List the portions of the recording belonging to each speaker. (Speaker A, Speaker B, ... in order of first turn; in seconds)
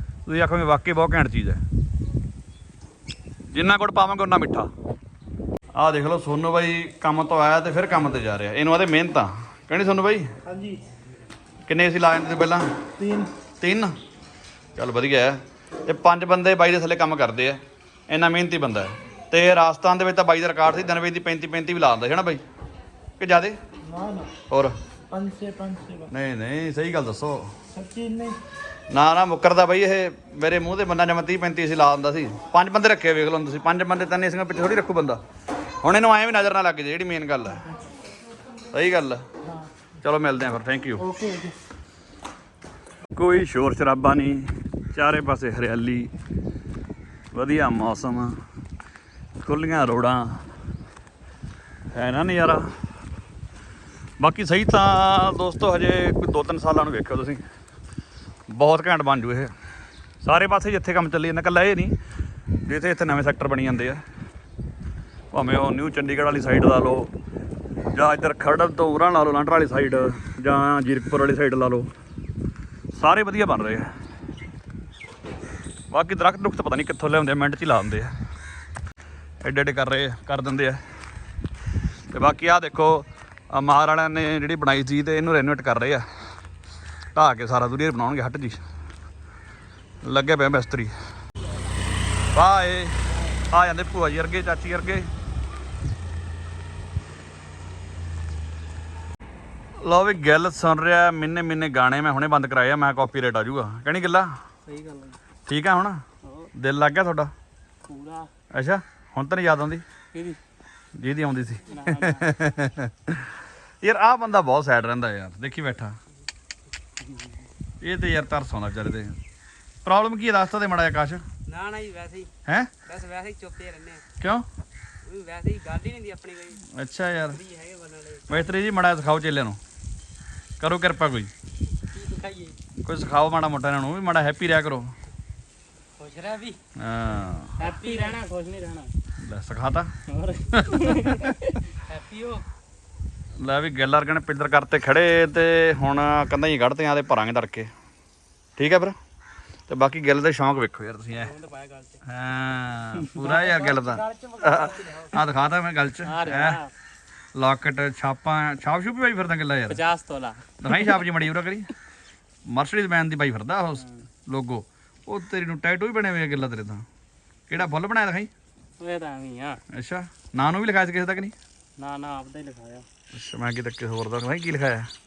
Speaker A: 0.3-1.6, 3.5-4.7, 5.8-10.3, 11.7-12.7, 13.6-13.9, 14.8-22.4, 23.2-23.6, 24.5-24.8, 26.1-27.5, 28.9-35.2, 35.8-37.7, 38.7-39.2, 40.0-41.1, 43.1-46.1, 47.3-48.4, 49.4-50.4, 51.9-52.7, 54.2-57.4, 58.5-59.5, 60.2-62.0, 62.6-64.0, 65.3-67.1, 67.9-71.9, 72.9-73.9, 75.9-78.1, 79.4-80.8, 82.1-86.1, 87.2-88.6, 90.0-90.9, 92.3-95.1, 99.8-104.3, 105.5-106.0, 106.5-107.3, 108.5-109.8, 111.0-116.0, 117.8-119.2, 119.8-121.2, 122.5-122.7, 124.2-124.5, 126.6-127.4, 128.3-129.6, 130.6-131.3, 132.8-134.9, 136.8-137.7, 139.2-139.9, 140.5-141.4, 143.4-147.7, 148.6-149.0, 149.7-151.3, 152.0-156.6, 157.3-159.8, 160.6-161.7, 162.5-166.8, 167.5-168.3, 169.7-171.3, 173.1-174.9
Speaker B: 10.4-10.8, 13.0-13.3, 23.9-24.3, 25.1-26.1, 27.7-28.4, 41.0-41.6
Speaker C: 104.7-105.2, 107.9-108.3, 111.7-112.3, 117.0-117.4, 121.5-122.3, 122.8-124.0, 125.0-126.7, 127.3-128.5, 131.9-132.6, 136.0-136.6, 137.6-138.9, 140.1-142.4, 151.1-152.0, 153.1-154.9, 156.0-156.7, 159.7-160.4, 168.8-169.6, 171.8-172.9